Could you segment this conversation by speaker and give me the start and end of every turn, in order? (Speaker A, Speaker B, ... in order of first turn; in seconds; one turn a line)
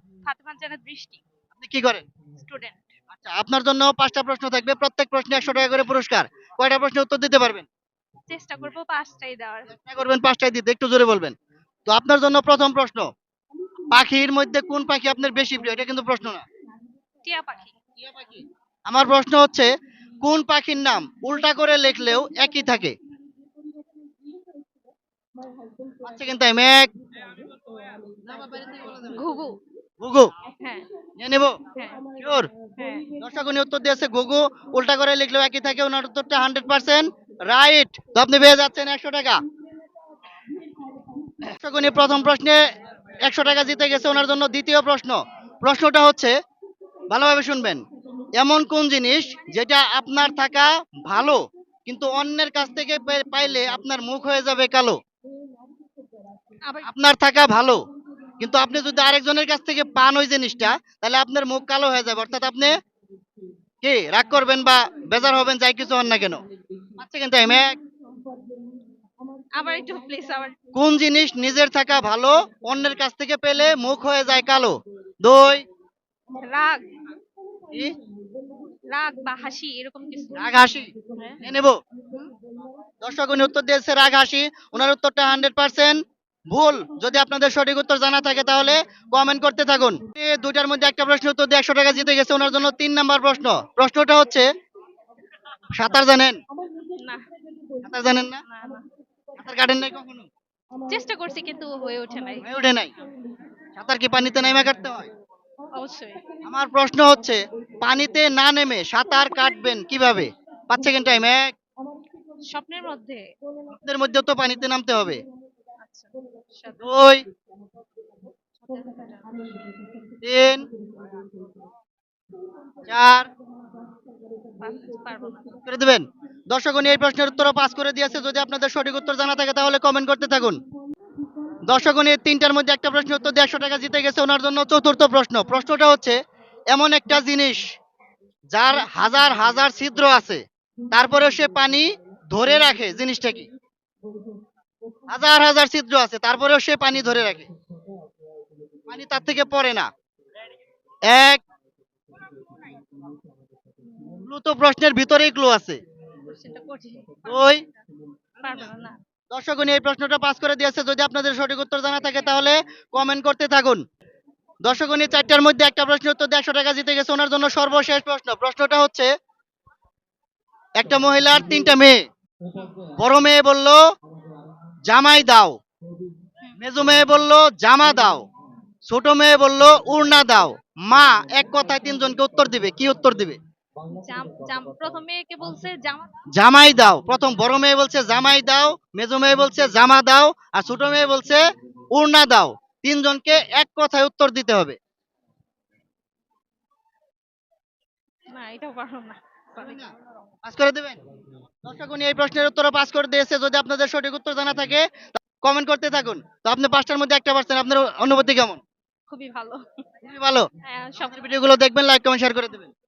Speaker A: 0.2-1.2
Speaker B: 1.5-2.0
Speaker A: 2.4-2.9
Speaker B: 3.1-7.7
Speaker A: 8.3-9.7
Speaker B: 9.7-11.3
Speaker B: 11.9-13.1
Speaker B: 13.9-16.4
Speaker A: 17.2-17.8
Speaker B: 18.0-19.7
Speaker B: 20.2-22.9
Speaker B: 26.1-26.9
Speaker B: 28.2-29.2
Speaker A: 29.1-29.6
Speaker B: 30.0-30.3
Speaker A: 30.6-30.9
Speaker B: 31.2-31.6
Speaker A: 31.7-32.0
Speaker B: 32.2-32.5
Speaker A: 32.8-33.1
Speaker B: 33.2-39.4
Speaker B: 41.4-42.6
Speaker B: 43.2-46.3
Speaker B: 47.1-47.8
Speaker B: 48.4-55.0
Speaker A: 56.6-56.9
Speaker B: 56.8-57.8
Speaker B: 58.4-62.7
Speaker B: 63.8-66.4
Speaker B: 67.0-67.8
Speaker A: 69.5-70.6
Speaker B: 70.8-75.6
Speaker A: 76.4-76.8
Speaker A: 78.9-80.5
Speaker B: 80.4-81.8
Speaker A: 81.2-81.5
Speaker B: 83.0-86.0
Speaker B: 86.5-94.5
Speaker B: 95.7-96.4
Speaker A: 97.0-97.3
Speaker B: 97.8-98.4
Speaker A: 98.4-98.9
Speaker B: 99.4-100.3
Speaker A: 100.9-102.5
Speaker B: 102.4-102.9
Speaker B: 103.8-105.1
Speaker A: 105.7-106.3
Speaker B: 106.4-111.5
Speaker A: 112.5-113.3
Speaker B: 113.7-115.2
Speaker A: 115.8-116.8
Speaker B: 116.8-117.2
Speaker A: 118.6-119.4
Speaker B: 120.2-120.7
Speaker B: 122.9-123.3
Speaker A: 124.6-125.7
Speaker B: 125.7-130.6
Speaker B: 131.7-136.2
Speaker B: 136.7-137.6
Speaker B: 138.5-143.5
Speaker B: 145.1-147.5
Speaker B: 148.9-149.9
Speaker B: 151.1-151.4
Speaker A: 153.9-154.3
Speaker B: 154.2-155.8
Speaker A: 156.2-157.8
Speaker B: 157.3-157.6
Speaker A: 158.4-159.0
Speaker B: 158.4-158.7
Speaker B: 159.3-163.8
Speaker B: 164.7-169.1
Speaker B: 170.8-172.0
Speaker A: 172.6-172.8
Speaker B: 173.0-173.8
Speaker B: 174.9-175.6
Speaker B: 176.6-178.2
Speaker B: 178.9-183.4
Speaker A: 183.9-186.2
Speaker B: 186.4-194.8
Speaker A: 198.3-200.3
Speaker B: 199.6-199.9
Speaker B: 200.4-201.0
Speaker B: 201.7-208.6
Speaker A: 209.1-209.6
Speaker B: 210.0-212.7
Speaker A: 210.6-211.3